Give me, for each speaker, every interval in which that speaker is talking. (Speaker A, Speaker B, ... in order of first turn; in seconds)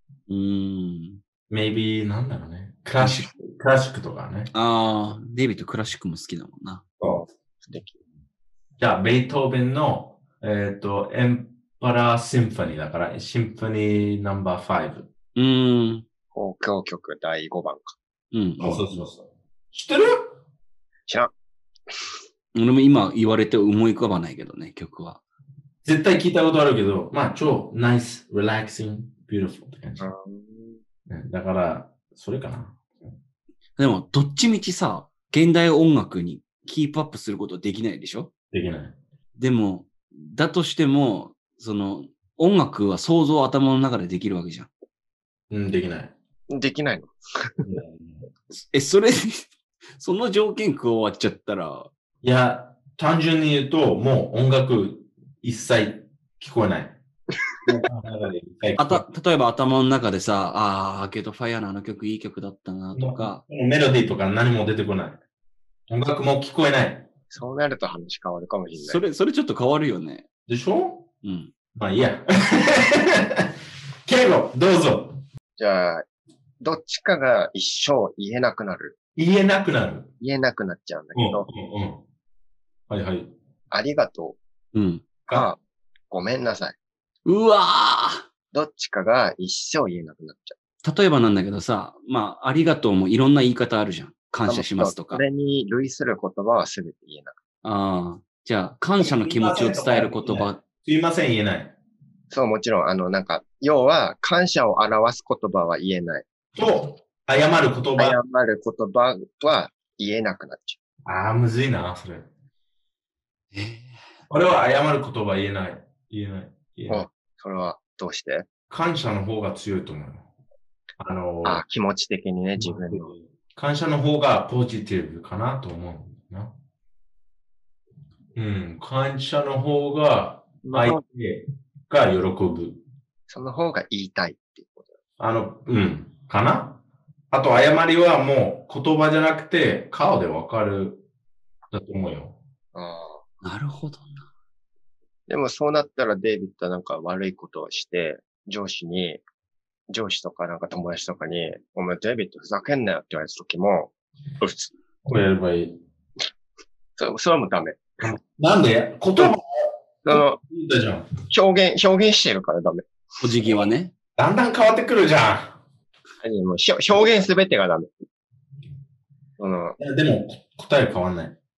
Speaker A: 0.3-1.2, 3.0-3.3, 4.5-6.8, 15.3-16.0, 18.3-18.8, 22.5-25.2, 33.8-38.3, 39.4-44.7, 48.5-51.9, 58.8-63.4, 68.8-70.3, 71.2-71.5, 84.7-85.0, 87.2-88.3, 90.8-95.2, 97.6-100.6, 113.5-114.0, 143.4-144.3, 163.2-163.9
Speaker B: 1.5-4.5, 8.8-15.1, 18.6-20.4, 25.8-30.0, 31.1-33.1, 38.5-39.0, 45.5-46.1, 47.6-48.2, 52.2-57.0, 57.7-59.0, 62.9-65.2, 65.9-67.1, 70.5-71.1, 71.7-73.5, 74.0-75.2, 79.2-80.1, 81.1-82.0, 82.9-83.3, 99.0-101.7, 106.5-108.2, 111.0-112.3, 114.3-117.1, 118.7-120.3, 121.0-121.6, 122.6-126.5, 128.3-132.8, 135.2-136.8, 137.3-141.0, 141.7-142.4, 155.0-155.8, 158.0-159.4, 160.1-161.1, 164.2-165.6, 169.8-171.3
Speaker C: 7.0-8.0, 16.3-17.9, 30.0-30.8, 46.5-47.7, 67.3-69.0, 75.6-76.0, 76.6-78.9, 80.2-81.5, 83.7-84.4, 85.3-85.6, 86.1-86.8, 88.5-90.5, 94.5-97.3, 102.3-106.2, 108.0-110.8, 116.9-118.5, 121.4-123.1, 130.6-131.0, 133.3-135.0, 142.7-143.2, 145.3-149.2, 149.9-154.7, 157.0-158.0, 160.1-160.4, 161.3-163.5, 166.2-167.9, 169.4-169.8